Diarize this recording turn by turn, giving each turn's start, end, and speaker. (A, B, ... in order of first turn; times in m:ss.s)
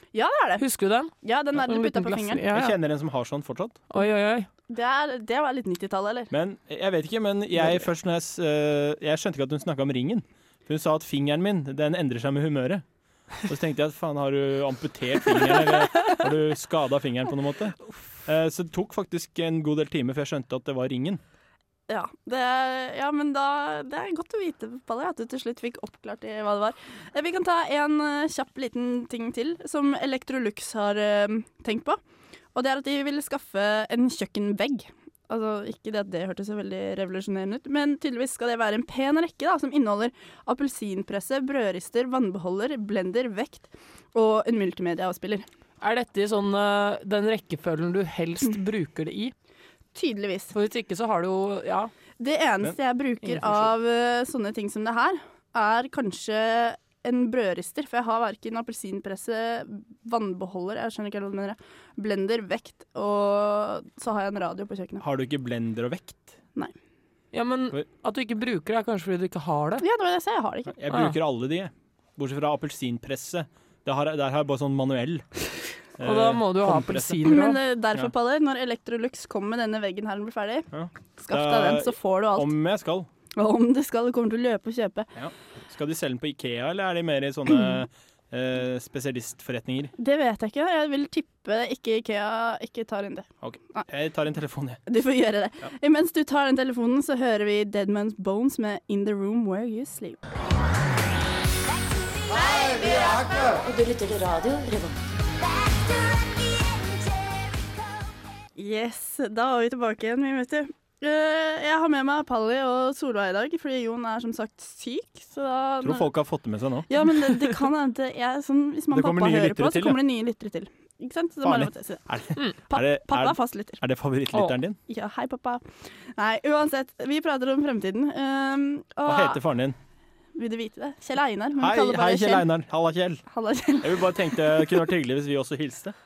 0:00.1-0:00.6 A
0:00.6-0:02.8 B
0:01.2-0:02.4 A
0:02.5-0:03.8 C
0:03.9-0:04.5 B
0:04.7-0:06.3 A
0:06.3-0:12.8 C
0:13.4-0:21.2 C
0:21.9-0:32.0 A
0:32.5-0:45.4 A
0:45.8-0:49.3 B
0:49.9-0:50.5 A
0:50.5-0:51.9 B
0:52.2-1:05.0 A
0:53.2-0:53.7 B
1:05.0-1:06.3 C
1:07.3-1:09.8 B
1:09.8-1:10.7 A
1:10.7-1:15.2 C
1:10.9-1:11.2 B
1:16.0-1:17.2 C
1:16.0-1:17.6 B
1:17.2-1:22.5 A
1:20.7-1:23.1 C
1:23.4-1:25.1 A
1:25.2-1:29.9 C
1:30.0-1:33.9 A
1:33.4-1:34.8 C
1:34.9-1:40.2 A
1:42.3-1:45.0 D
1:45.7-1:47.4 D
1:48.6-1:56.1 A
1:55.8-1:56.9 C
1:56.9-2:02.0 A
1:58.9-2:00.0 C
2:01.4-2:04.8 C
2:02.7-2:03.8 A
2:04.3-2:04.6 B
2:04.9-2:05.6 A
2:06.2-2:09.4 A
2:09.0-2:09.8 C
2:10.4-2:12.5 A
2:11.6-2:13.2 C
2:13.3-2:14.8 A
2:13.8-2:15.9 C